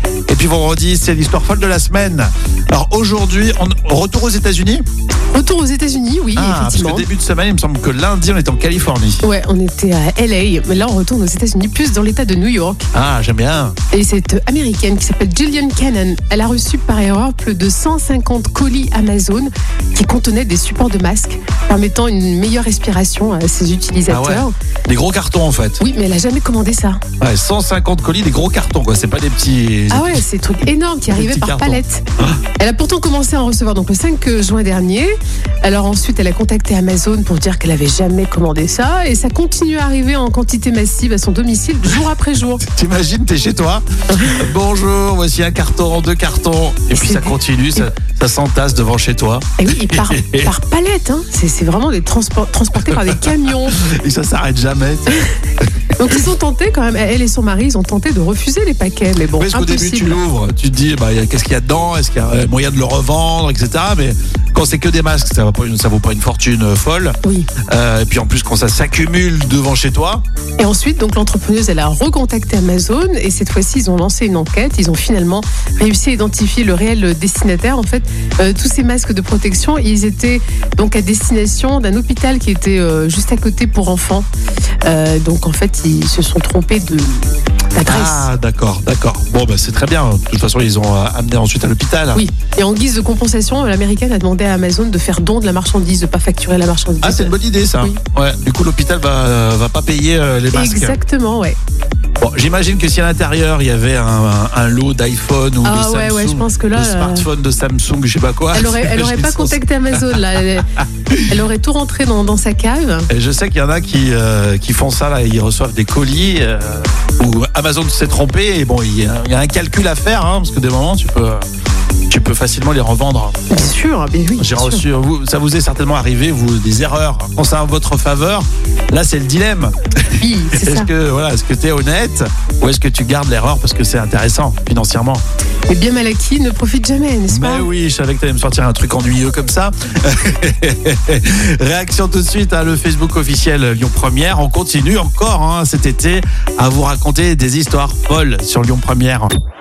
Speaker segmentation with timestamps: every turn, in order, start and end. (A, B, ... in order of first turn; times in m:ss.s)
0:00.3-0:04.8 A
0:05.3-0:07.1 B
0:06.3-0:09.2 A
0:09.2-0:12.8 B
0:12.9-0:13.8 A
0:13.9-0:24.5 B
0:24.1-0:25.8 A
0:25.8-0:27.0 B
0:27.2-0:30.2 A
0:29.9-0:32.0 B
0:31.1-0:32.4 A
0:32.6-0:35.1 B
0:35.6-0:42.6 B
0:42.6-0:50.5 A
0:44.1-0:44.4 B
0:46.9-0:47.8 B
0:49.6-0:53.8 B
0:52.8-0:55.6 A
0:56.0-1:00.2 B
0:59.4-1:10.2 A
1:07.2-1:07.5 B
1:10.6-1:24.3 B
1:24.8-1:28.3 B
1:27.8-1:32.2 A
1:32.1-1:38.0 B
1:37.0-1:41.0 A
1:40.5-1:41.6 B
1:42.2-1:51.4 A
1:45.6-1:47.3 B
1:48.5-1:50.6 B
1:51.2-1:53.1 B
1:53.1-2:01.4 A
2:02.1-2:03.4 A
2:03.5-2:04.8 B
2:04.4-2:15.2 A
2:10.2-2:10.9 B
2:15.7-2:17.7 B
2:17.3-2:29.3 A